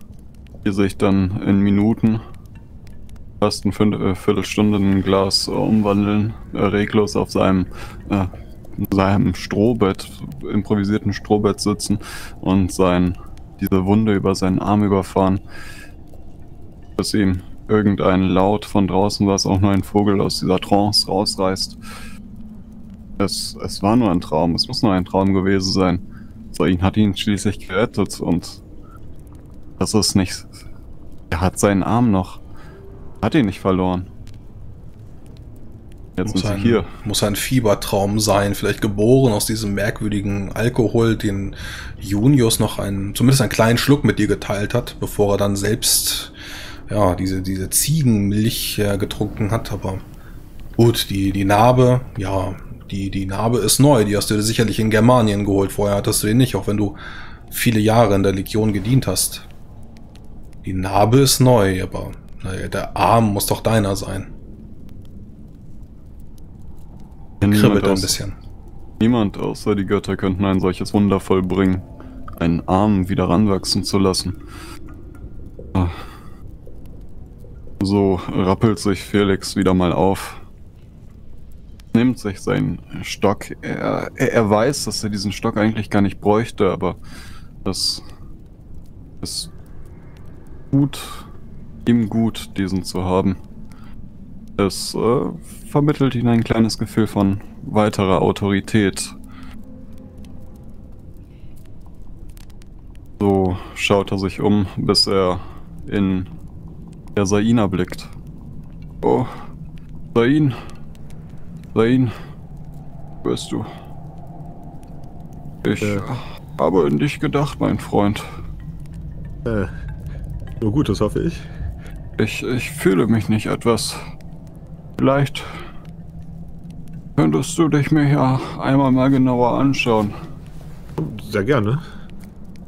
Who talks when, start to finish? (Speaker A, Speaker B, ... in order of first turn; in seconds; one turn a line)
Speaker A: 0.6-2.2
Speaker A: 3.4-15.4
Speaker A: 17.0-21.8
Speaker A: 23.2-28.6
Speaker A: 29.8-30.5
Speaker A: 31.3-32.4
Speaker A: 33.2-34.1
Speaker A: 36.2-36.9
Speaker B: 36.3-46.3
Speaker B: 46.9-50.0
Speaker B: 50.8-57.0
Speaker B: 57.5-59.5
Speaker B: 60.6-64.3
Speaker A: 67.4-68.2
Speaker B: 67.4-68.3
Speaker A: 69.0-71.9
Speaker A: 72.4-74.4
Speaker A: 77.8-80.4
Speaker A: 81.9-87.0
Speaker A: 87.7-88.0
Speaker A: 89.2-89.5
Speaker A: 90.7-91.3
Speaker A: 91.9-93.4
Speaker A: 94.6-99.2
Speaker A: 103.2-106.3
Speaker A: 107.2-108.1
Speaker A: 109.0-109.3
Speaker A: 110.1-110.6
Speaker A: 111.7-112.1
Speaker A: 113.2-113.7
Speaker A: 115.6-118.3
Speaker C: 119.5-119.7
Speaker C: 120.6-121.4
Speaker A: 122.2-124.0
Speaker A: 125.0-125.5
Speaker A: 127.2-130.1
Speaker C: 131.0-131.8